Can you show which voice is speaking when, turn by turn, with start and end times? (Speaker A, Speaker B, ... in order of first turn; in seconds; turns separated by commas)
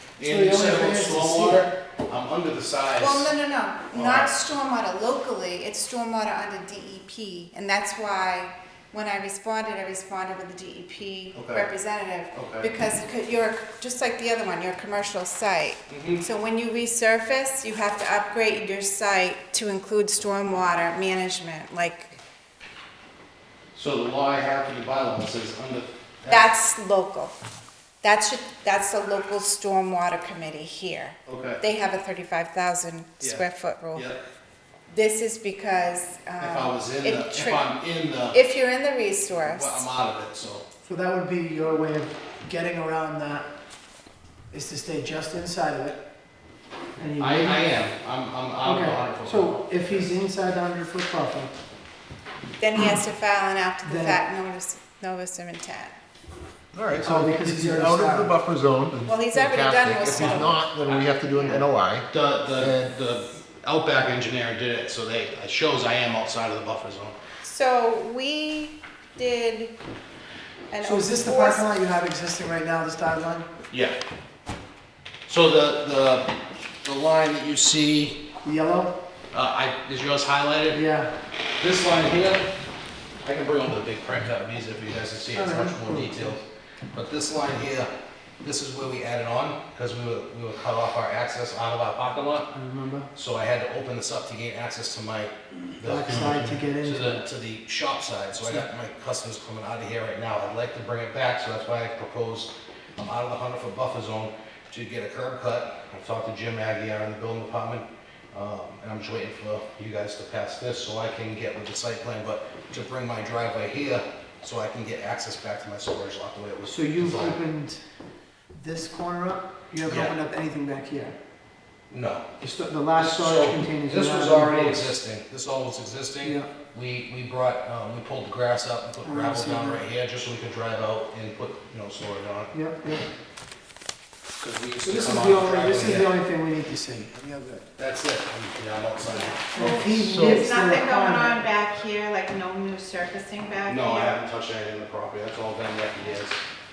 Speaker A: 0.2-3.3, Speaker B: 0.2-1.7, Speaker C: 3.0-22.2, Speaker A: 3.9-4.3, Speaker A: 11.3-11.7, Speaker A: 12.3-12.7, Speaker A: 15.9-16.2, Speaker A: 23.8-26.5, Speaker C: 26.3-27.3, Speaker C: 28.0-34.1, Speaker A: 31.3-31.6, Speaker A: 33.2-34.2, Speaker C: 34.9-37.7, Speaker A: 36.4-38.4, Speaker C: 38.3-39.9, Speaker A: 39.4-40.6, Speaker B: 40.8-43.5, Speaker B: 44.5-46.0, Speaker B: 47.0-47.7, Speaker A: 47.2-50.1, Speaker B: 48.6-51.6, Speaker C: 52.6-56.0, Speaker B: 53.8-54.2, Speaker D: 56.7-62.1, Speaker B: 57.0-58.4, Speaker C: 59.1-60.7, Speaker A: 60.8-67.2, Speaker C: 61.3-61.6, Speaker D: 62.6-62.9, Speaker C: 67.4-69.7, Speaker C: 70.7-71.7, Speaker B: 70.8-73.5, Speaker A: 75.3-76.3, Speaker A: 76.8-78.2, Speaker B: 78.4-78.9, Speaker A: 79.3-80.8, Speaker B: 80.7-81.1, Speaker A: 81.6-82.5, Speaker A: 83.2-86.4, Speaker B: 85.3-86.4, Speaker A: 86.9-87.9, Speaker A: 88.4-92.5, Speaker B: 92.5-93.1, Speaker A: 93.2-117.4, Speaker B: 95.8-97.2, Speaker B: 116.7-117.8, Speaker B: 118.5-121.2, Speaker A: 119.8-120.2, Speaker A: 121.9-122.2, Speaker B: 122.4-124.9, Speaker A: 122.9-132.6, Speaker B: 126.2-126.5, Speaker B: 129.0-129.8, Speaker B: 132.5-133.1, Speaker A: 134.4-136.1, Speaker B: 134.8-137.7, Speaker A: 137.8-139.6, Speaker C: 139.1-144.2, Speaker B: 139.5-141.5, Speaker D: 139.6-140.5, Speaker A: 143.7-146.4